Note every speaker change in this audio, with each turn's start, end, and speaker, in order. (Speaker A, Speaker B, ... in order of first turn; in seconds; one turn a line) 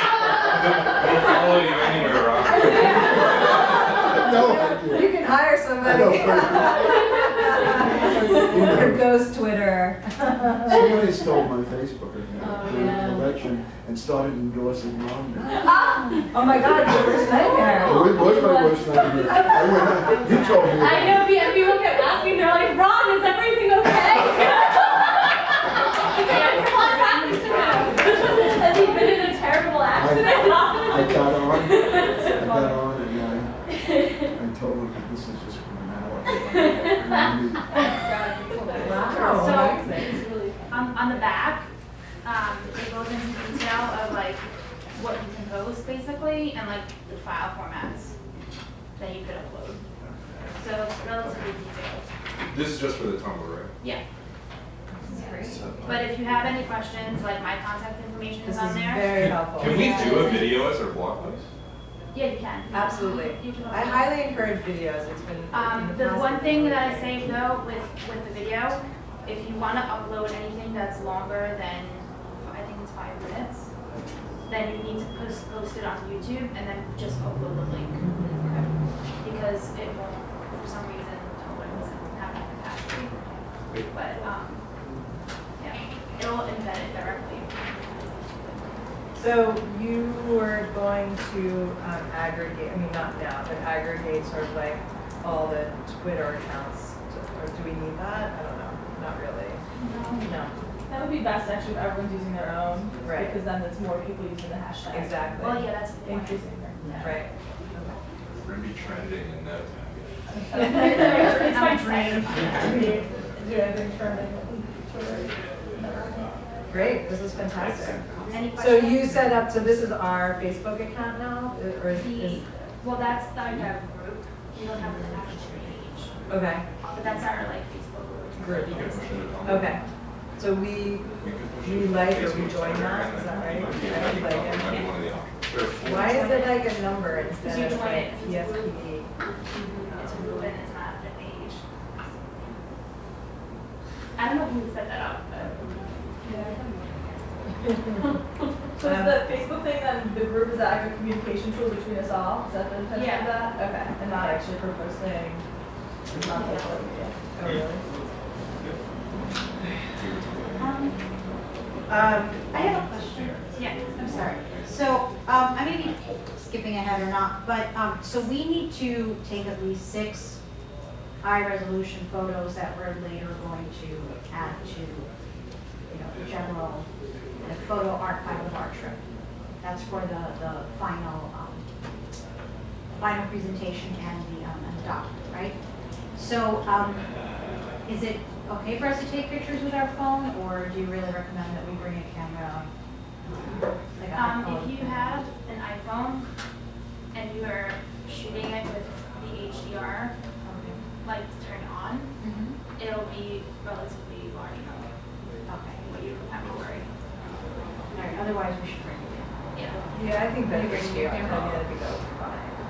Speaker A: 0.5-4.0
Speaker B: 2.4-11.0
Speaker C: 3.5-5.3
Speaker C: 5.8-7.1
Speaker C: 8.4-9.1
Speaker C: 10.7-15.6
Speaker B: 16.2-18.1
Speaker C: 17.8-21.4
Speaker D: 20.8-24.2
Speaker E: 24.4-24.8
Speaker F: 26.2-28.7
Speaker D: 27.6-28.1
Speaker E: 28.6-32.8
Speaker C: 29.9-33.6
Speaker C: 34.2-37.7
Speaker E: 38.0-41.3
Speaker B: 38.7-40.2
Speaker F: 39.1-41.7
Speaker F: 42.2-48.1
Speaker F: 49.0-49.8
Speaker F: 50.6-52.0
Speaker A: 52.5-53.7
Speaker G: 55.1-55.6
Speaker F: 55.1-60.5
Speaker A: 55.5-56.0
Speaker B: 58.4-60.6
Speaker A: 59.1-61.5
Speaker F: 62.1-64.2
Speaker B: 62.7-67.4
Speaker F: 65.5-73.7
Speaker F: 74.5-84.7
Speaker F: 85.6-87.5
Speaker B: 89.2-99.6
Speaker F: 99.8-100.3
Speaker B: 100.2-100.5
Speaker E: 100.9-105.3
Speaker B: 103.0-103.4
Speaker B: 104.9-105.8
Speaker F: 105.4-107.2
Speaker E: 106.0-106.8
Speaker B: 106.9-108.0
Speaker A: 108.4-110.1
Speaker E: 110.5-116.4
Speaker F: 110.5-113.0
Speaker B: 116.7-122.7
Speaker A: 117.6-118.5
Speaker F: 118.3-119.6
Speaker F: 121.9-126.2
Speaker B: 126.3-126.7
Speaker F: 126.9-129.5
Speaker A: 128.4-129.8
Speaker B: 128.4-129.8
Speaker B: 130.4-134.8
Speaker A: 131.2-136.0
Speaker F: 134.6-135.0
Speaker B: 135.7-139.1
Speaker F: 135.9-136.7
Speaker F: 137.4-138.7
Speaker D: 139.5-139.9
Speaker B: 139.9-140.2
Speaker F: 139.9-141.6
Speaker F: 144.2-145.8
Speaker E: 148.8-155.4
Speaker B: 148.8-149.3
Speaker F: 152.9-153.6
Speaker B: 154.2-154.4
Speaker E: 156.2-157.2
Speaker F: 156.3-156.8
Speaker B: 157.3-157.8
Speaker A: 160.0-160.7
Speaker G: 160.6-161.0
Speaker G: 161.9-170.4
Speaker F: 163.6-164.1
Speaker A: 164.0-164.7
Speaker G: 171.2-175.1
Speaker G: 175.9-176.9
Speaker G: 177.4-179.0
Speaker G: 179.6-181.6
Speaker G: 182.9-185.6
Speaker G: 186.1-187.1
Speaker G: 187.8-192.7
Speaker G: 193.3-195.2
Speaker F: 194.1-196.3
Speaker F: 197.1-200.2
Speaker G: 200.4-200.8
Speaker F: 201.0-202.1
Speaker G: 202.2-202.6
Speaker F: 202.8-204.9
Speaker G: 205.5-205.9
Speaker F: 205.8-206.9
Speaker G: 207.9-211.5
Speaker F: 209.5-209.8
Speaker B: 209.9-212.6